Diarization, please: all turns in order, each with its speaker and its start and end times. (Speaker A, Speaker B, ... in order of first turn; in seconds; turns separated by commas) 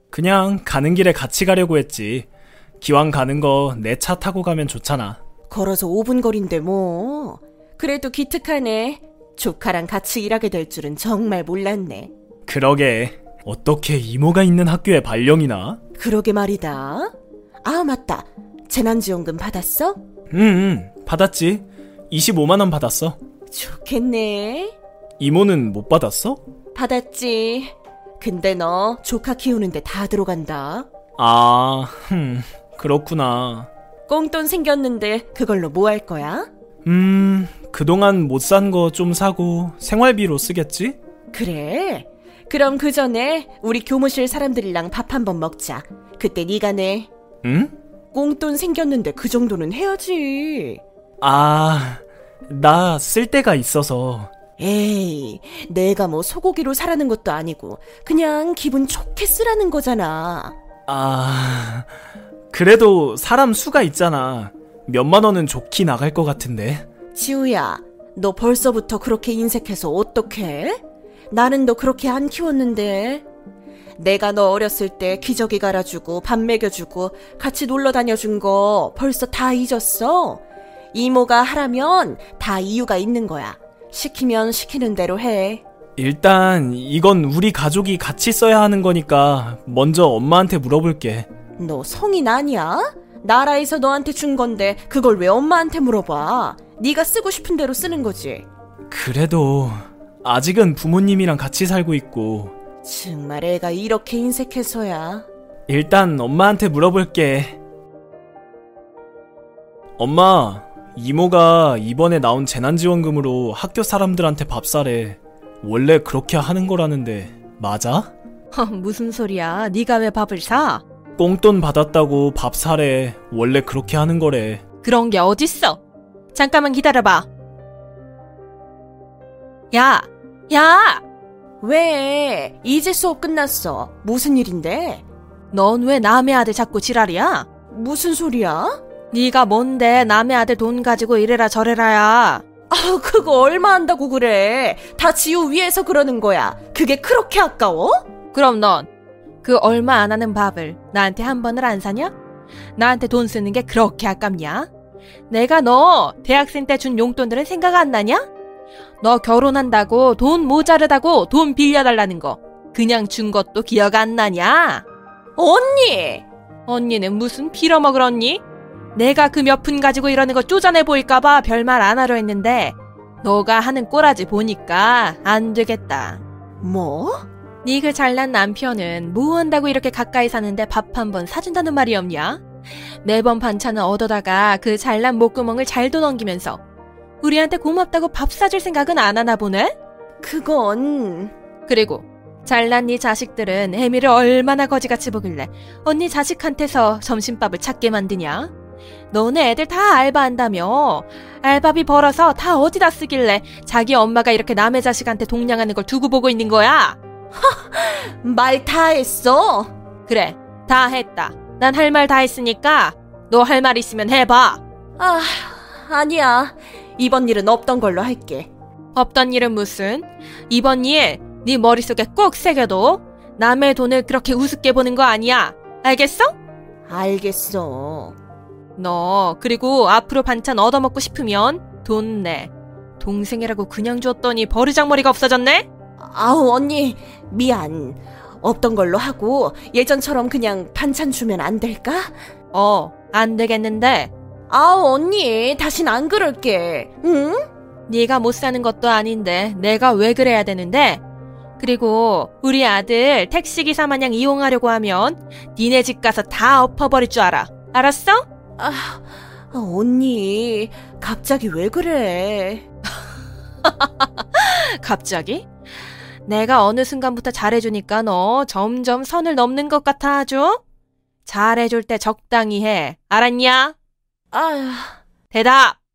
Speaker A: 0.1-2.3, Speaker A: 2.8-5.2, Speaker B: 5.5-12.1, Speaker A: 12.4-15.8, Speaker B: 15.9-20.0, Speaker A: 20.3-23.2, Speaker B: 23.5-24.7, Speaker A: 25.2-26.4, Speaker B: 26.7-30.9, Speaker A: 31.2-33.7, Speaker B: 34.1-36.5, Speaker A: 36.8-41.0, Speaker B: 41.3-47.1, Speaker A: 47.4-47.7, Speaker B: 48.1-50.8, Speaker A: 51.2-54.3, Speaker B: 54.6-60.5, Speaker A: 60.9-61.9, Speaker A: 62.5-66.8, Speaker B: 67.1-70.8, Speaker B: 71.3-73.2, Speaker B: 74.0-80.4, Speaker B: 80.9-85.6, Speaker A: 86.0-91.3, Speaker B: 91.6-98.5, Speaker A: 98.9-102.5, Speaker B: 102.8-105.3, Speaker A: 105.7-107.6, Speaker A: 110.0-118.1, Speaker C: 118.5-120.8, Speaker A: 121.2-124.6, Speaker C: 124.8-125.8, Speaker C: 126.3-127.3, Speaker C: 129.7-131.0, Speaker B: 131.6-135.0, Speaker C: 135.5-137.5, Speaker B: 137.7-138.8, Speaker C: 139.1-142.4, Speaker B: 142.7-148.0, Speaker C: 148.3-148.9, Speaker C: 149.4-152.1, Speaker C: 152.8-154.7, Speaker C: 155.3-158.3, Speaker C: 159.0-164.8, Speaker B: 165.3-166.2, Speaker C: 166.7-168.4, Speaker C: 168.9-176.2, Speaker B: 176.6-177.2, Speaker C: 177.6-182.4, Speaker C: 183.0-186.6, Speaker C: 187.2-189.7, Speaker B: 190.2-191.3, Speaker C: 191.7-198.5, Speaker C: 199.1-207.0, Speaker B: 207.3-209.7, Speaker C: 210.1-214.6, Speaker B: 215.0-218.5, Speaker C: 218.9-226.3, Speaker B: 226.9-228.1, Speaker C: 228.8-235.7, Speaker B: 236.0-242.1, Speaker C: 242.5-244.1, Speaker B: 244.5-247.5, Speaker C: 247.9-251.0, Speaker C: 251.6-258.2, Speaker B: 258.6-262.6, Speaker C: 263.6-265.5, Speaker C: 266.2-270.6, Speaker C: 271.2-273.7, Speaker B: 274.3-275.0, Speaker C: 275.3-275.8